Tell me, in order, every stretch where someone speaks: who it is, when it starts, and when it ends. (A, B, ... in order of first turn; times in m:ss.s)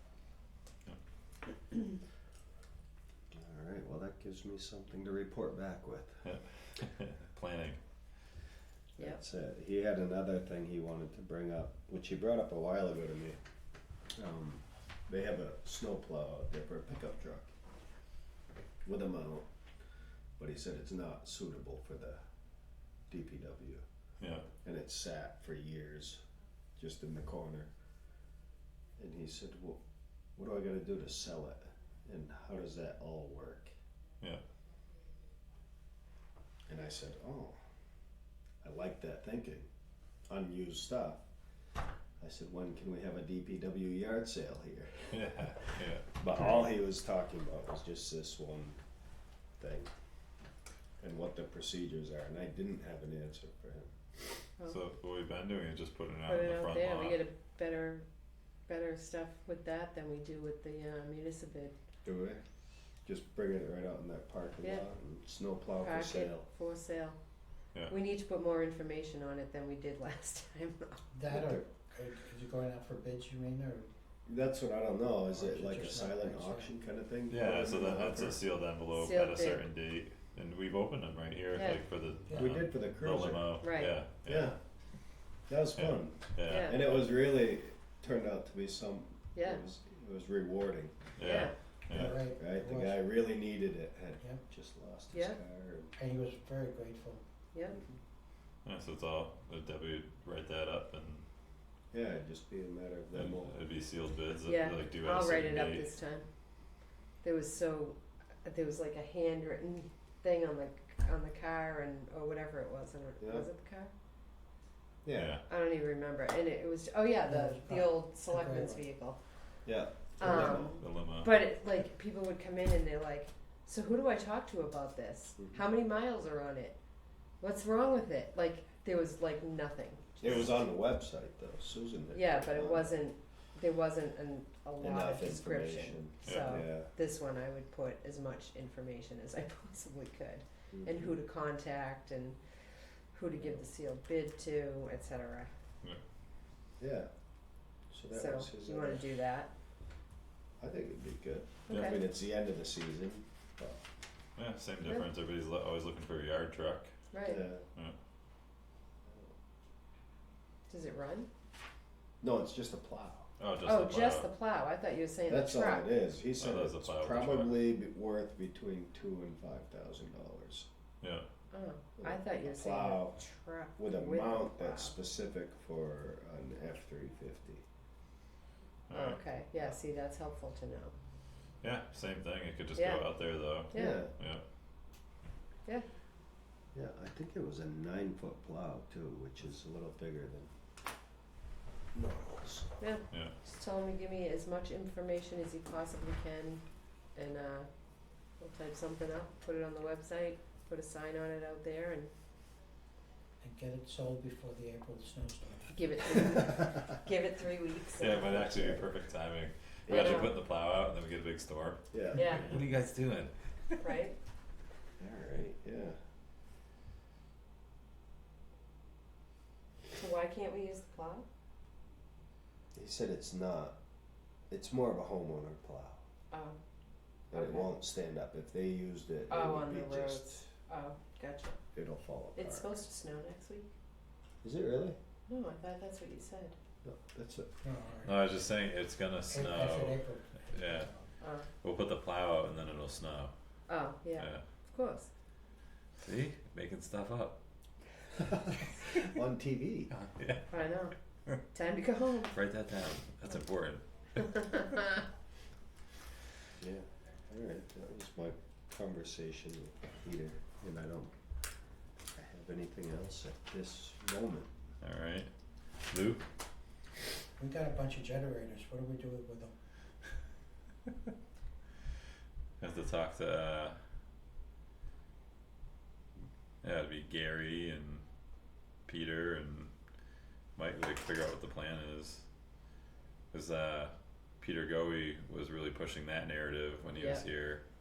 0:03.3-0:06.2 A
0:06.2-0:07.8 B
0:09.0-0:13.4 A
0:14.2-0:17.5 A
0:18.8-0:19.5 A
0:20.4-0:22.2 A
0:23.1-0:23.8 A
0:24.2-0:24.5 B
0:24.6-0:26.2 A
0:26.8-0:27.7 A
0:29.0-0:29.8 A
0:30.4-0:33.7 A
0:36.7-0:37.6 A
0:38.6-0:39.7 A
0:40.3-0:41.2 A
0:42.2-0:48.8 A
0:45.1-0:46.6 B
0:49.6-0:49.9 A
0:51.0-0:53.9 A
0:54.6-0:57.2 B
0:56.3-0:58.0 C
0:58.7-1:01.7 C
1:02.0-1:02.4 A
1:03.0-1:06.4 A
1:05.8-1:07.2 C
1:07.9-1:11.0 C
1:11.1-1:13.9 D
1:11.3-1:11.6 A
1:14.3-1:18.4 A
1:15.3-1:16.7 D
1:17.3-1:24.5 B
1:18.9-1:19.6 C
1:21.5-1:21.8 C
1:22.3-1:22.6 D
1:22.3-1:23.6 A
1:23.6-1:23.9 C
1:24.2-1:24.6 A
1:25.5-1:31.0 A
1:25.8-1:27.1 B
1:26.4-1:26.8 C
1:29.3-1:29.6 C
1:31.2-1:32.2 B
1:31.2-1:31.5 C
1:31.9-1:33.0 D
1:32.4-1:35.9 A
1:35.1-1:35.4 C
1:36.0-1:37.2 D
1:37.7-1:38.0 A
1:38.6-1:41.2 B
1:41.9-1:43.6 A
1:43.1-1:45.9 B
1:44.4-1:46.2 C
1:47.2-1:53.9 C
1:53.2-1:53.4 A
1:55.0-1:55.4 A
1:55.1-1:55.4 B
1:55.5-1:59.2 C
1:57.2-1:58.8 D
1:59.6-2:00.8 A
2:00.2-2:06.8 C
2:00.3-2:01.3 B
2:07.4-2:10.5 C
2:10.2-2:12.9 A
2:12.1-2:22.4 C
2:14.8-2:16.9 A
2:16.2-2:16.6 B
2:20.7-2:21.2 A
2:23.1-2:25.5 C
2:26.8-2:27.1 A
2:27.9-2:29.0 A
2:28.1-2:29.5 C
2:30.6-2:33.8 A
2:31.7-2:32.0 C
2:31.7-2:32.0 B
2:34.4-2:36.9 B
2:37.1-2:37.4 C
2:37.2-2:37.6 A
2:40.7-2:41.3 C
2:42.2-2:43.3 A
2:43.4-2:44.3 B
2:43.6-2:45.9 C
2:45.3-2:50.7 A
2:46.3-2:47.6 B
2:51.0-2:51.3 B
2:51.5-2:54.9 C
2:52.0-2:53.2 A
2:53.8-2:57.6 A
2:58.9-2:59.2 B
2:58.9-3:00.9 C
3:01.6-3:04.4 B
3:02.8-3:03.0 C
3:03.7-3:04.0 C
3:03.7-3:04.1 A
3:06.7-3:10.5 A
3:11.9-3:12.7 A
3:12.8-3:16.6 C
3:17.1-3:17.7 C
3:18.4-3:22.1 C
3:23.4-3:26.2 D
3:25.7-3:28.5 C
3:28.0-3:33.8 B
3:28.2-3:28.8 A
3:29.8-3:30.3 A
3:29.9-3:30.4 C
3:31.9-3:32.4 A
3:32.1-3:32.5 C
3:33.8-3:34.2 C
3:35.0-3:36.0 A
3:40.0-3:41.2 C
3:42.7-3:43.8 A
3:44.5-3:46.0 A
3:46.3-3:46.6 C
3:47.3-3:50.5 A
3:47.3-3:47.7 C
3:49.3-3:51.6 C
3:51.7-3:52.7 A
3:52.4-3:53.7 C
3:54.4-3:55.0 A
3:55.3-3:56.5 C
3:56.8-3:57.5 A
3:57.6-3:58.2 D
3:58.0-4:00.9 B
3:59.3-4:01.1 D
4:01.2-4:01.5 C
4:01.6-4:03.3 B
4:03.7-4:05.1 C
4:04.2-4:04.4 B
4:06.0-4:07.4 B
4:08.2-4:09.9 A
4:09.9-4:10.6 B
4:10.5-4:11.0 C
4:11.5-4:12.3 C
4:12.3-4:14.4 B
4:14.3-4:15.0 C
4:16.6-4:21.1 A
4:22.1-4:24.5 A
4:24.8-4:25.3 B
4:25.9-4:26.2 B
4:27.4-4:29.5 D
4:32.6-4:33.8 B
4:36.6-4:38.0 B
4:38.9-4:39.7 B
4:40.6-4:42.2 B
4:43.3-4:47.6 B
4:47.0-4:47.2 C